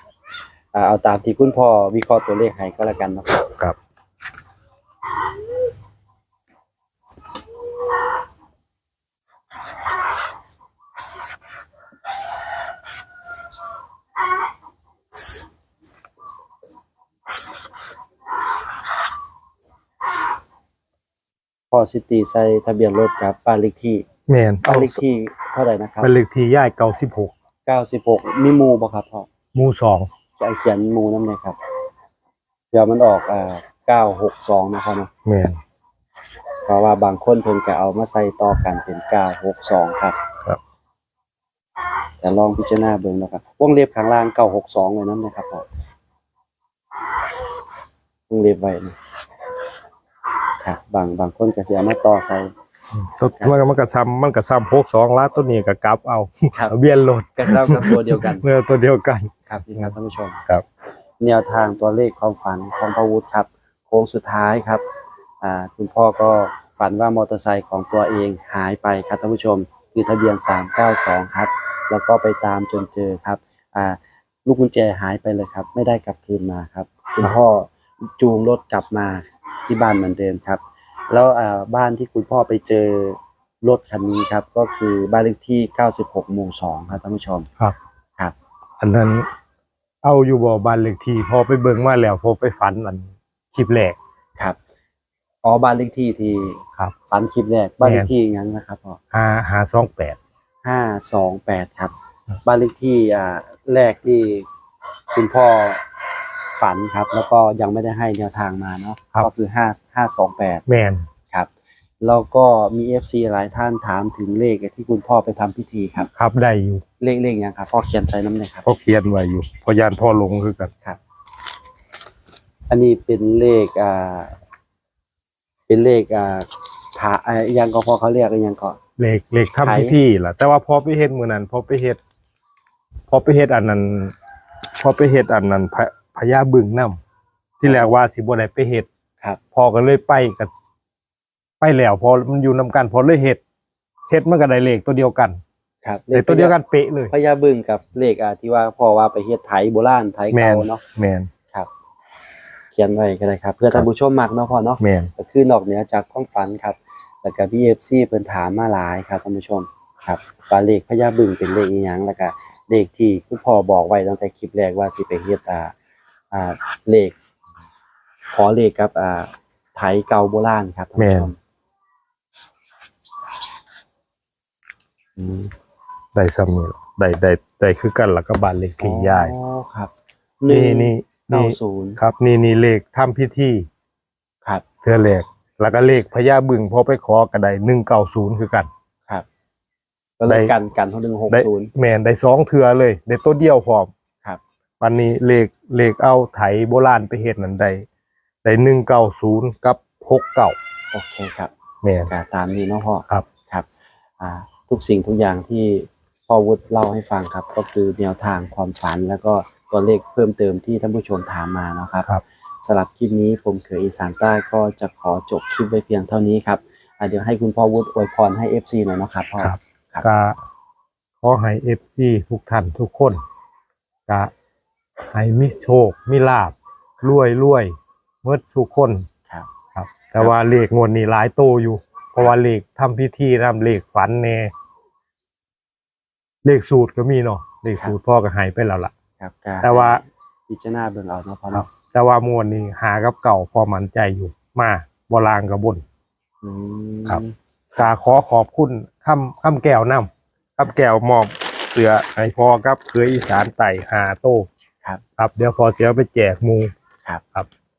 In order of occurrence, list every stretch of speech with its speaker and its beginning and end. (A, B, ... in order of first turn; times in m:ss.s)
0:00.7-0:03.4 A
0:03.5-0:03.8 B
0:21.7-0:24.1 A
0:24.3-0:25.0 B
0:24.6-0:26.1 A
0:26.0-0:27.3 B
0:27.7-0:29.3 A
0:29.5-0:30.1 B
0:30.4-0:31.6 A
0:32.7-0:35.1 A
0:35.3-0:35.6 B
0:36.7-0:40.2 A
0:42.2-0:45.7 A
0:48.3-0:49.0 A
0:50.6-0:52.5 A
0:52.9-0:59.9 B
0:57.4-0:58.4 A
0:59.5-1:00.4 A
1:01.2-1:04.8 A
1:05.4-1:27.5 A
1:28.8-1:29.3 B
1:30.0-1:34.0 B
1:35.4-1:39.0 A
1:37.8-1:38.1 B
1:39.1-1:40.2 B
1:40.6-1:41.9 A
1:42.4-1:44.5 A
1:45.1-1:45.8 A
1:46.6-1:50.6 A
1:50.7-1:51.1 B
1:52.0-1:56.1 A
1:56.2-1:56.8 B
1:57.0-1:58.7 A
1:58.6-2:00.7 B
2:02.7-2:04.4 A
2:05.7-2:08.8 A
2:09.0-2:12.0 B
2:09.6-2:10.0 A
2:13.1-2:14.1 B
2:14.8-2:17.0 B
2:17.6-2:18.9 B
2:17.6-2:18.0 A
2:19.6-2:20.5 B
2:21.6-2:23.4 B
2:24.1-2:25.4 B
2:25.8-2:26.6 A
2:26.1-2:27.1 B
2:27.1-2:30.8 A
2:30.3-2:31.3 B
2:32.7-2:45.7 A
2:34.8-2:35.1 B
2:46.3-2:47.2 A
2:48.3-2:51.4 A
2:51.0-2:51.3 B
2:55.2-2:55.5 A
2:56.2-2:59.3 B
2:58.8-3:02.0 A
3:00.5-3:03.7 B
3:04.8-3:08.7 B
3:10.2-3:11.7 A
3:10.3-3:10.5 B
3:11.3-3:13.9 B
3:14.8-3:17.8 B
3:18.4-3:20.6 B
3:20.9-3:21.5 A
3:21.8-3:22.1 B
3:22.1-3:23.7 A
3:24.2-3:32.1 A
3:32.6-3:40.0 A
3:39.4-3:40.4 B
3:41.2-3:43.2 B
3:45.1-3:49.1 B
3:49.8-3:54.5 B
3:56.4-3:58.9 B
3:59.2-4:01.7 A
3:59.6-4:00.0 B
4:01.5-4:05.8 B
4:06.4-4:07.9 A
4:07.8-4:14.5 B
4:15.2-4:16.7 B